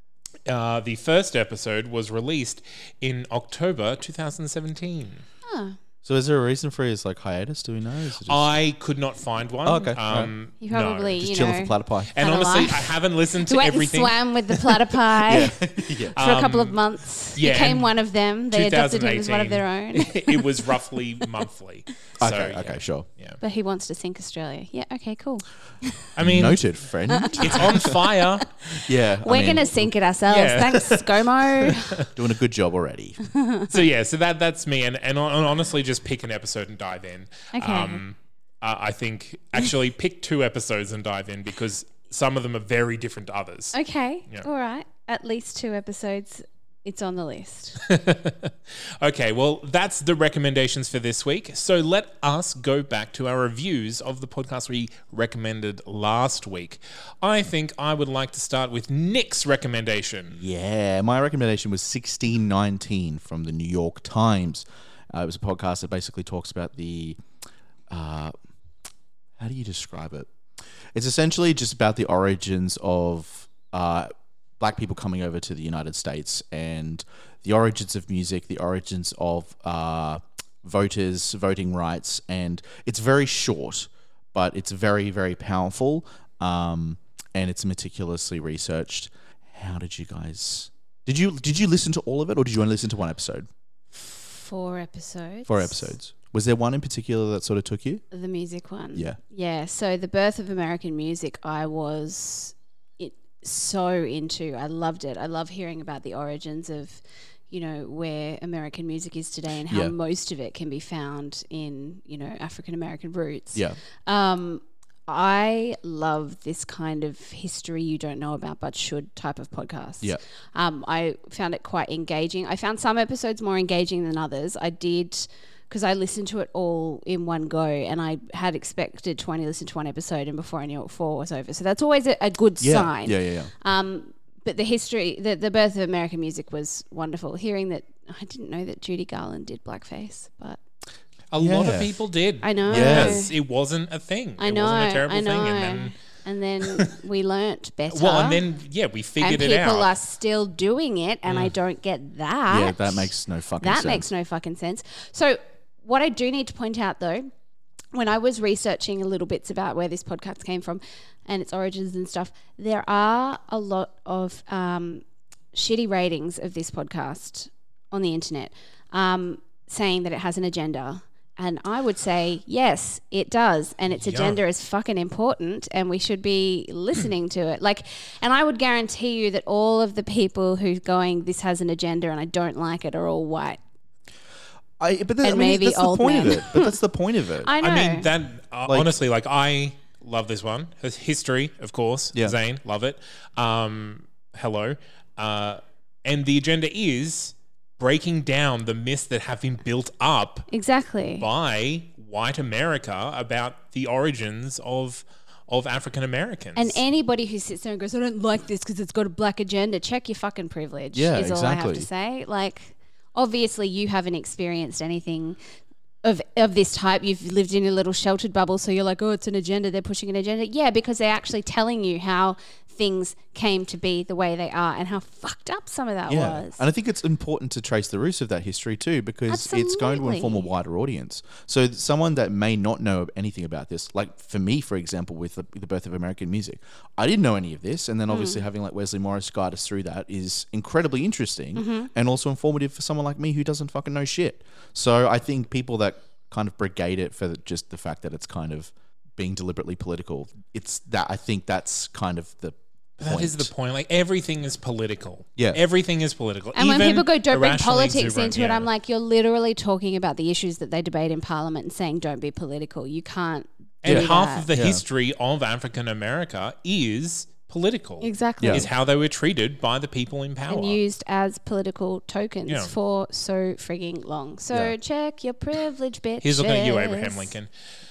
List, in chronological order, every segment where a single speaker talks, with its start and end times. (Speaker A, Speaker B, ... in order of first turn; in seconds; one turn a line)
Speaker A: 0.5-5.3
Speaker B: 5.5-5.8
Speaker C: 6.0-8.5
Speaker A: 8.3-11.2
Speaker C: 9.6-10.3
Speaker B: 10.6-20.4
Speaker C: 11.2-12.2
Speaker A: 12.2-14.8
Speaker C: 15.3-16.2
Speaker A: 16.2-18.0
Speaker A: 18.5-23.4
Speaker C: 22.2-23.1
Speaker B: 23.4-26.1
Speaker A: 26.2-26.6
Speaker C: 26.2-27.9
Speaker B: 27.1-32.0
Speaker A: 27.4-28.7
Speaker C: 28.8-29.9
Speaker A: 30.3-32.0
Speaker C: 32.1-33.2
Speaker B: 33.4-33.7
Speaker A: 33.7-43.8
Speaker B: 37.5-38.0
Speaker B: 43.7-47.8
Speaker A: 47.9-60.4
Speaker C: 60.4-67.2
Speaker C: 67.9-68.3
Speaker C: 69.4-93.5
Speaker B: 93.9-95.9
Speaker C: 95.5-98.0
Speaker B: 98.1-140.6
Speaker C: 98.9-99.2
Speaker C: 109.7-109.9
Speaker C: 132.6-133.5
Speaker A: 141.3-146.0
Speaker C: 141.4-142.0
Speaker B: 142.4-143.3
Speaker C: 142.7-143.2
Speaker B: 144.4-148.4
Speaker A: 147.9-149.9
Speaker B: 149.2-157.3
Speaker A: 151.3-151.5
Speaker C: 152.5-154.1
Speaker B: 157.9-183.6
Speaker A: 174.1-174.4
Speaker C: 184.8-187.5
Speaker B: 185.2-186.7
Speaker B: 187.4-188.1
Speaker A: 187.6-200.5
Speaker B: 200.5-201.3
Speaker A: 201.2-206.8
Speaker B: 206.6-215.4
Speaker C: 210.9-211.9
Speaker B: 216.0-226.6
Speaker C: 226.1-253.5
Speaker B: 229.3-230.5
Speaker B: 238.1-238.4
Speaker B: 241.6-241.9
Speaker A: 253.0-258.7
Speaker B: 256.6-264.5
Speaker A: 263.8-270.8
Speaker C: 263.9-264.8
Speaker B: 268.0-268.7
Speaker C: 268.4-268.7
Speaker B: 270.5-277.3
Speaker A: 272.5-272.7
Speaker A: 276.2-277.5